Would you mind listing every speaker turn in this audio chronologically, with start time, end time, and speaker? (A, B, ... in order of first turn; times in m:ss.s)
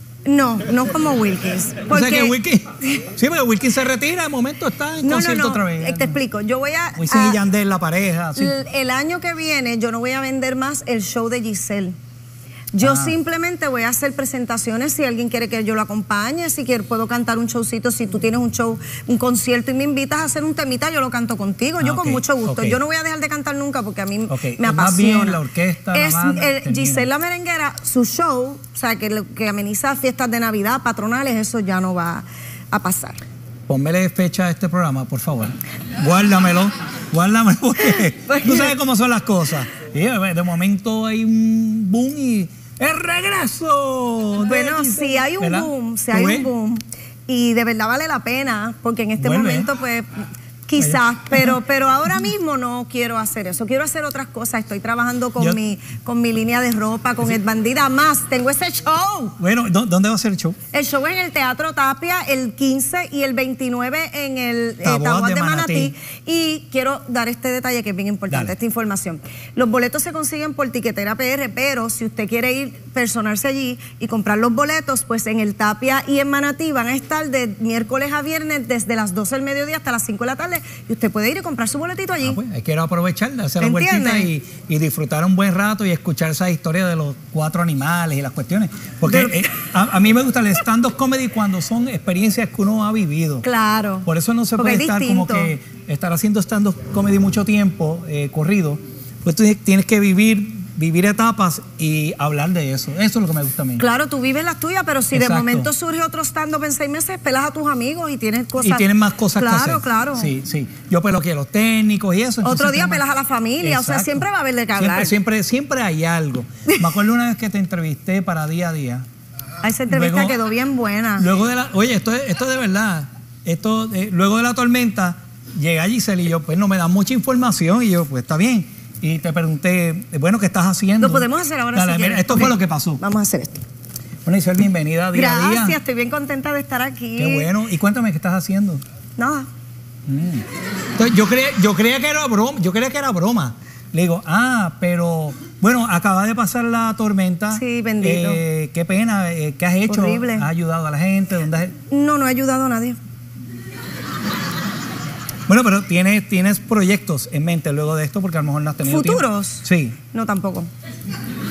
0:00.3-0:02.4 A
0:01.9-0:06.2 B
0:05.0-0:07.4 A
0:07.0-0:08.5 B
0:08.4-0:12.0 A
0:12.7-0:33.2 A
0:12.8-0:13.1 B
0:21.8-0:22.8 B
0:24.3-0:27.1 B
0:33.7-0:46.5 B
0:38.3-0:38.8 A
0:44.4-0:59.4 A
0:49.2-0:49.7 B
0:50.8-0:51.5 B
0:59.4-1:00.6 B
1:00.7-1:22.4 A
1:04.8-1:05.9 B
1:22.2-1:33.4 B
1:23.6-1:24.3 A
1:29.1-1:29.4 A
1:33.4-1:34.1 A
1:34.0-1:43.8 B
1:34.6-1:35.5 A
1:43.8-1:50.3 A
1:45.1-1:45.7 B
1:48.6-1:53.0 B
1:52.4-1:55.1 A
1:53.6-1:54.2 B
1:54.8-1:59.1 B
1:59.6-2:01.3 A
1:59.9-2:00.4 B
2:01.2-2:13.0 B
2:11.0-2:13.6 A
2:14.3-2:15.8 B
2:15.1-2:17.5 A
2:17.2-2:18.8 B
2:19.2-2:19.5 A
2:20.1-2:20.5 B
2:21.0-2:31.8 B
2:27.6-2:28.4 A
2:29.9-2:30.5 A
2:31.9-2:33.0 A
2:35.5-2:40.0 B
2:38.8-2:40.7 A